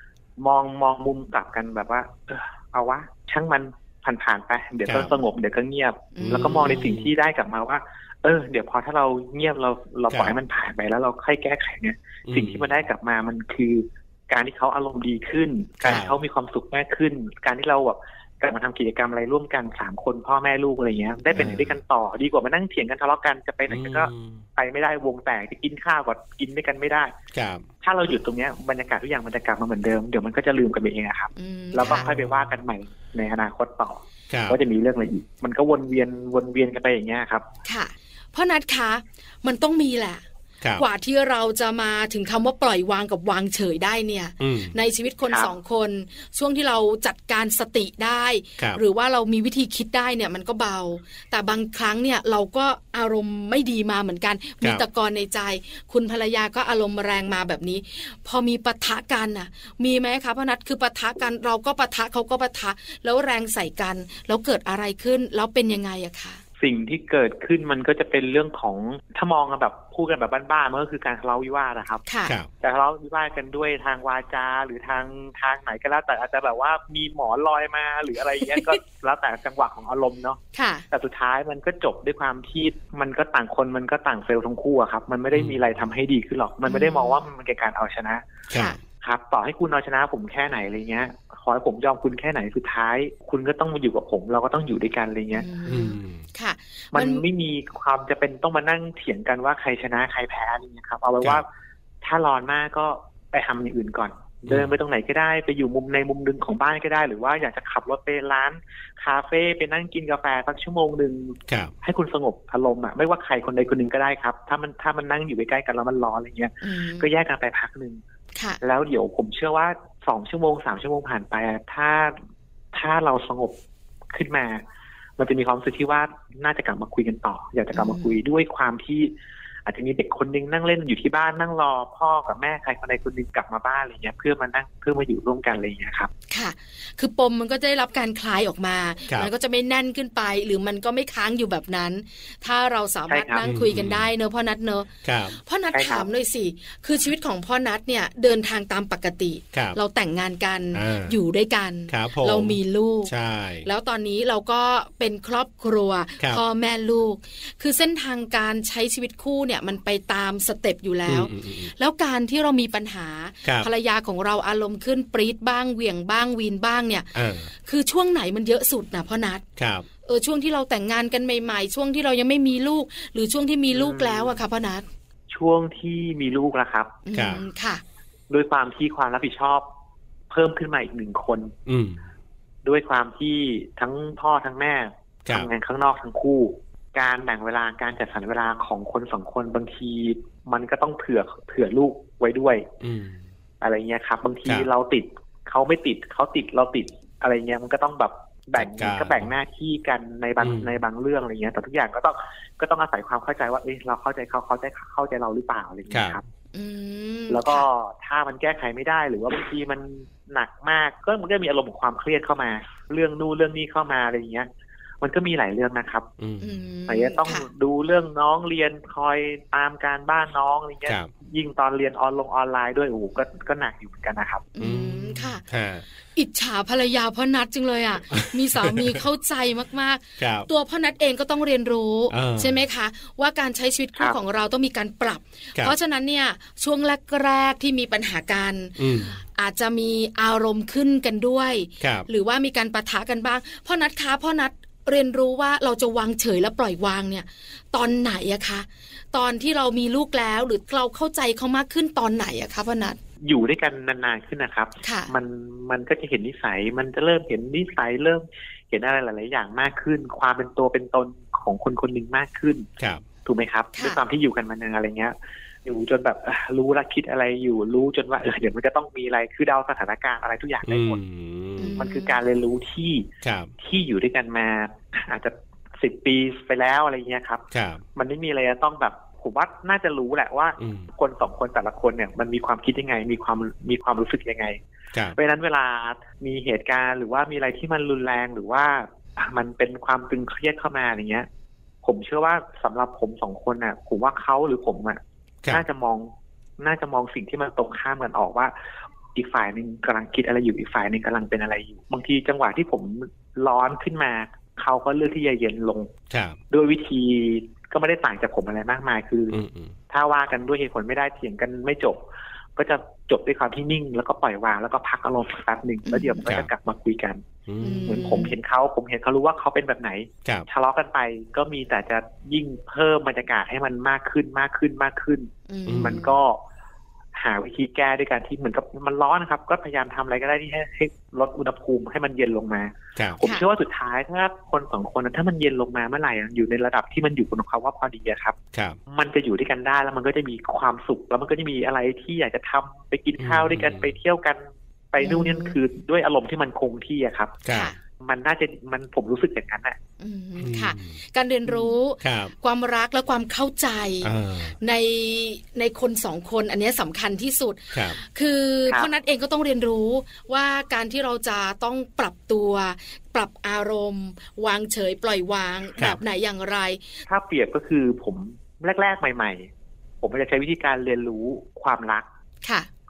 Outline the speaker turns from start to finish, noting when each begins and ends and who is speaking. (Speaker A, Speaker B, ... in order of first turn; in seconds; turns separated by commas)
Speaker A: 0.4-27.1, Speaker B: 4.8-5.1, Speaker C: 6.1-6.9, Speaker B: 6.2-7.1, Speaker B: 10.1-10.4, Speaker B: 12.3-12.7, Speaker B: 15.8-16.1, Speaker B: 21.3-21.8, Speaker B: 23.7-24.4, Speaker B: 27.3-27.6, Speaker A: 27.8-37.5, Speaker C: 31.4-32.0, Speaker B: 31.8-32.5, Speaker B: 34.3-34.6, Speaker C: 37.6-40.2, Speaker B: 40.6-40.9, Speaker C: 40.8-66.4, Speaker B: 44.4-44.7, Speaker A: 66.6-72.0, Speaker C: 72.1-72.3, Speaker A: 72.6-88.3, Speaker C: 78.5-78.8, Speaker C: 80.5-80.8, Speaker C: 86.7-87.2, Speaker B: 88.5-88.8, Speaker C: 88.5-88.8, Speaker A: 89.0-95.5, Speaker C: 95.3-97.2, Speaker B: 95.7-96.2, Speaker A: 96.9-101.5, Speaker A: 102.0-118.0, Speaker B: 104.5-104.7, Speaker B: 111.5-111.7, Speaker C: 116.6-117.1, Speaker A: 118.6-122.2, Speaker A: 122.7-123.6, Speaker A: 124.1-124.6, Speaker A: 125.2-129.1, Speaker C: 127.7-128.1, Speaker A: 129.7-136.1, Speaker C: 136.3-153.1, Speaker A: 143.1-143.4, Speaker B: 143.4-144.1, Speaker B: 145.0-145.3, Speaker A: 145.7-146.1, Speaker B: 149.5-149.8, Speaker B: 150.7-151.1, Speaker B: 151.9-153.7, Speaker C: 153.6-167.1, Speaker B: 161.1-161.7, Speaker B: 167.1-167.5, Speaker C: 167.6-169.4, Speaker B: 169.6-169.8, Speaker C: 170.0-174.8, Speaker A: 173.7-174.4, Speaker A: 175.3-177.0, Speaker C: 177.1-177.8, Speaker B: 177.1-177.4, Speaker A: 178.3-179.7, Speaker A: 180.3-181.5, Speaker B: 181.7-182.0, Speaker A: 182.6-192.7, Speaker B: 192.8-193.2, Speaker A: 193.6-206.2, Speaker B: 198.5-199.3, Speaker B: 200.4-200.8, Speaker B: 205.9-206.2, Speaker C: 206.5-207.7, Speaker A: 207.3-214.5, Speaker A: 215.0-216.1, Speaker B: 216.2-216.6, Speaker C: 216.4-217.4, Speaker A: 216.9-224.5, Speaker C: 224.5-225.4, Speaker B: 224.6-225.8, Speaker C: 226.2-253.0, Speaker B: 228.1-229.0, Speaker B: 230.2-230.5, Speaker B: 232.1-232.6, Speaker B: 238.8-239.2, Speaker B: 241.8-242.1, Speaker A: 253.2-262.7, Speaker C: 254.8-255.1, Speaker B: 262.8-263.0, Speaker A: 263.2-271.0, Speaker C: 263.7-264.0, Speaker B: 270.6-271.8, Speaker C: 271.6-272.2, Speaker A: 271.8-273.1, Speaker B: 273.2-273.5, Speaker A: 273.6-284.6, Speaker B: 277.5-277.8, Speaker B: 280.6-280.9, Speaker A: 285.1-291.3, Speaker A: 291.8-298.5, Speaker A: 299.1-305.9, Speaker B: 306.1-306.4, Speaker A: 306.5-309.4, Speaker B: 309.3-309.7, Speaker A: 309.9-312.0, Speaker A: 312.6-317.2, Speaker C: 315.9-316.2, Speaker B: 316.2-316.5, Speaker B: 317.5-317.9, Speaker C: 317.6-318.3, Speaker A: 317.8-326.4, Speaker C: 325.5-326.1, Speaker B: 325.7-325.9, Speaker A: 327.1-338.4, Speaker A: 338.9-344.4, Speaker B: 343.2-343.9, Speaker A: 344.9-347.4, Speaker C: 345.0-345.5, Speaker B: 347.4-347.7, Speaker C: 347.5-347.8, Speaker A: 348.0-349.8, Speaker C: 350.0-366.8, Speaker B: 350.4-351.0, Speaker B: 352.0-352.3, Speaker B: 354.0-354.5, Speaker B: 357.7-358.0, Speaker A: 367.1-369.5, Speaker A: 370.0-372.1